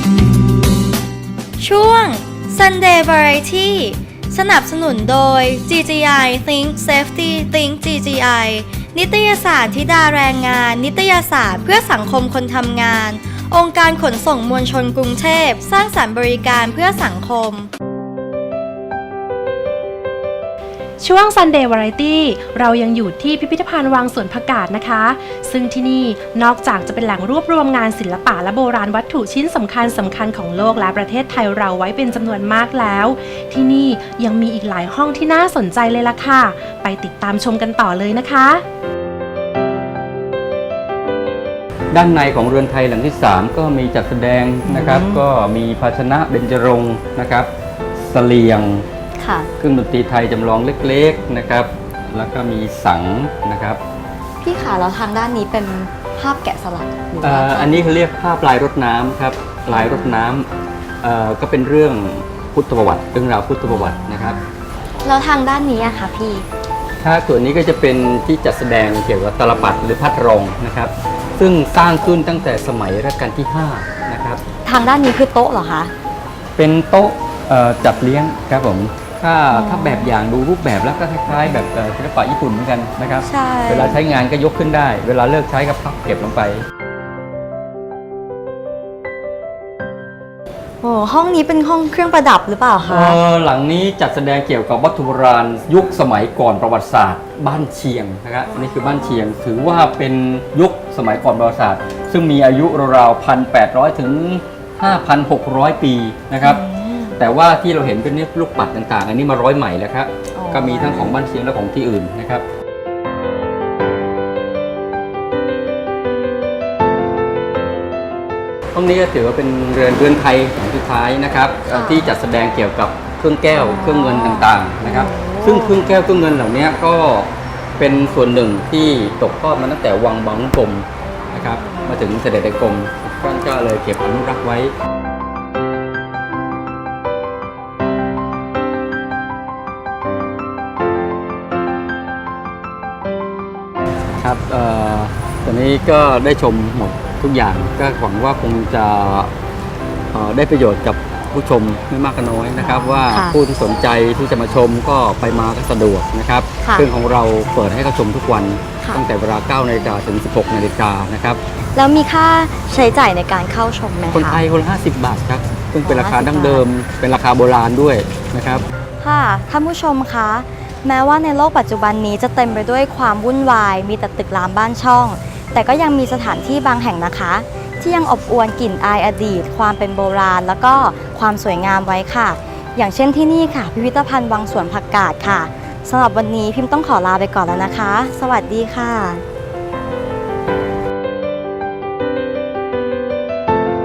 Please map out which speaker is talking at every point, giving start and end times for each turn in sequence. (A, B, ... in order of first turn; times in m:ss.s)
0:01.6-0:17.7 A
0:21.0-0:38.6 B
0:41.9-0:48.8 C
0:44.7-0:45.2 A
0:49.2-0:49.5 A
0:49.6-0:53.8 C
0:54.4-0:57.8 A
0:57.2-1:00.5 C
0:59.7-1:00.2 A
1:01.0-1:04.4 C
1:03.7-1:04.0 A
1:05.0-1:06.5 A
1:07.0-1:14.4 C
1:14.6-1:15.9 A
1:16.6-1:26.6 C
1:19.5-1:20.1 A
1:23.2-1:24.0 A
1:30.8-1:33.2 A
1:32.9-1:46.6 C
1:38.7-1:39.1 A
1:46.4-1:47.2 A
1:47.2-1:52.4 C
1:50.3-1:51.2 A
1:58.7-2:14.7 C
2:01.7-2:02.1 A
2:03.5-2:05.9 A
2:24.2-2:29.3 C
2:30.1-2:41.4 C
2:32.6-2:33.4 A
2:41.7-2:44.4 A
2:44.1-2:48.6 C
2:45.8-2:46.6 A
2:49.0-3:09.2 A